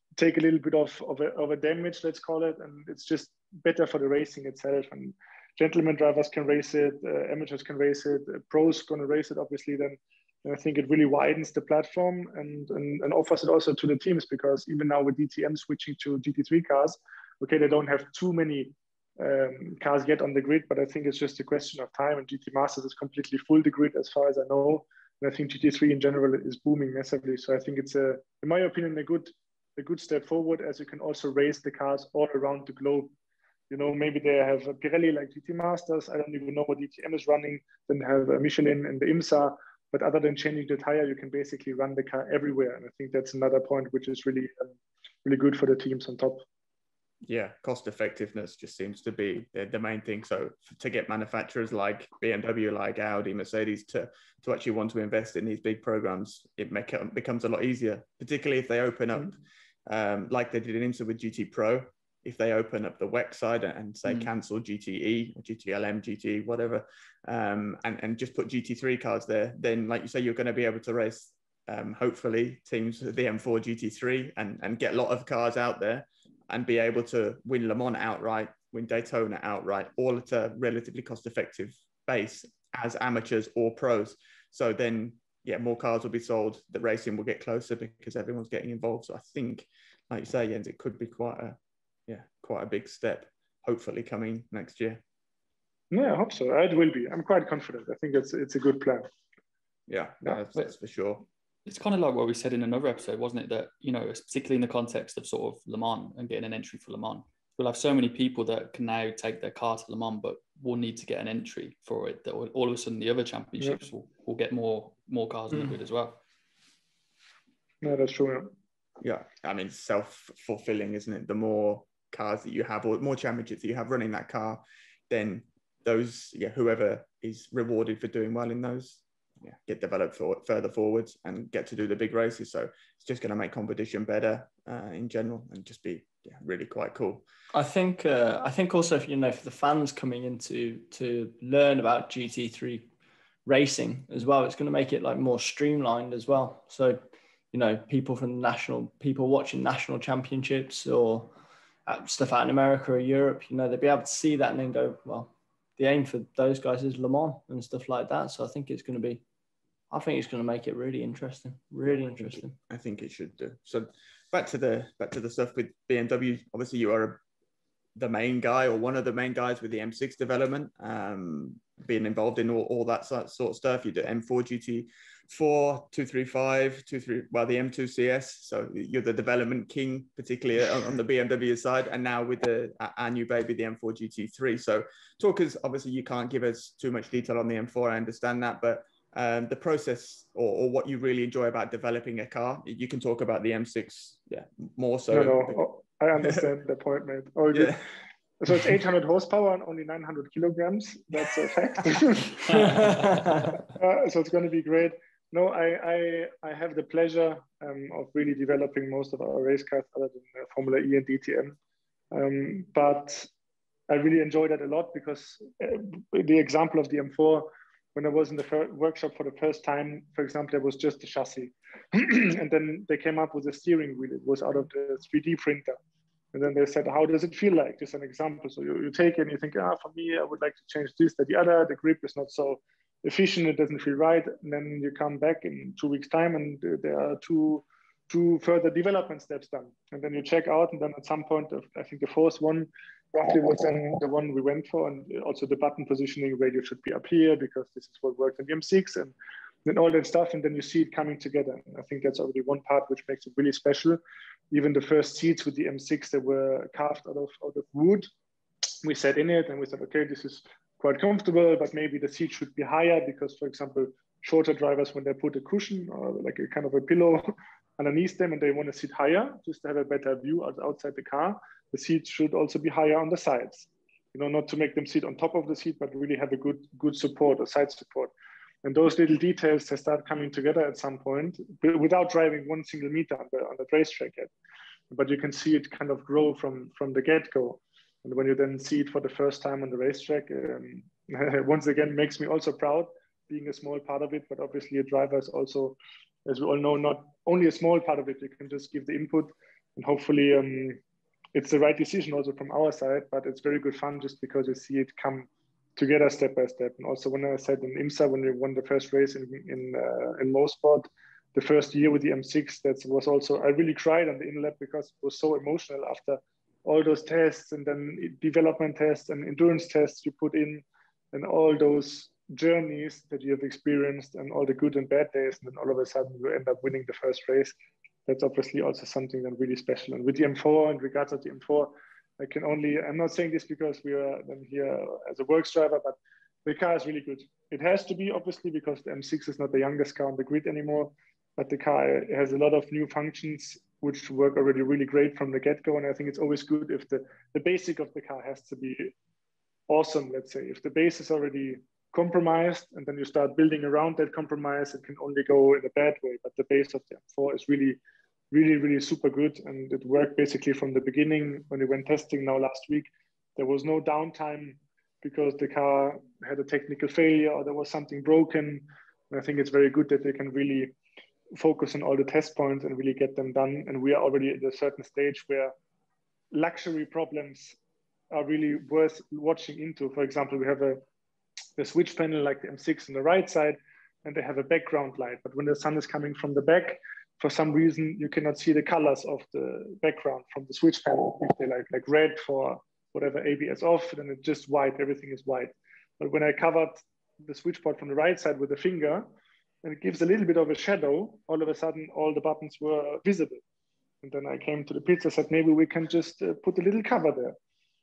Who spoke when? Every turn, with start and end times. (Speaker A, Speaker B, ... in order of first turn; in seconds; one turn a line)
Speaker A: 0.2-33.1
Speaker A: 33.7-46.4
Speaker B: 47.2-91.6
Speaker B: 92.1-95.0
Speaker A: 95.9-99.1
Speaker B: 99.9-101.2
Speaker C: 101.7-116.2
Speaker A: 117.8-118.5
Speaker B: 119.0-137.2
Speaker D: 137.5-142.9
Speaker D: 143.4-151.3
Speaker D: 151.8-159.2
Speaker D: 159.9-162.6
Speaker B: 162.0-167.2
Speaker B: 167.9-195.6
Speaker A: 195.1-197.8
Speaker B: 197.5-197.8
Speaker A: 198.4-202.9
Speaker C: 202.5-203.1
Speaker D: 202.5-203.5
Speaker A: 203.6-211.6
Speaker A: 212.1-213.3
Speaker A: 213.9-225.8
Speaker A: 226.3-249.1
Speaker A: 249.6-254.0
Speaker A: 254.5-258.1
Speaker A: 258.8-278.1
Speaker A: 278.6-284.3
Speaker A: 284.9-300.8
Speaker A: 301.3-327.6
Speaker A: 328.1-348.9
Speaker A: 349.7-357.8
Speaker A: 358.3-370.7
Speaker A: 371.3-375.5
Speaker A: 376.3-377.6
Speaker A: 378.1-380.8
Speaker A: 381.6-399.1
Speaker A: 399.6-403.4
Speaker A: 404.0-407.4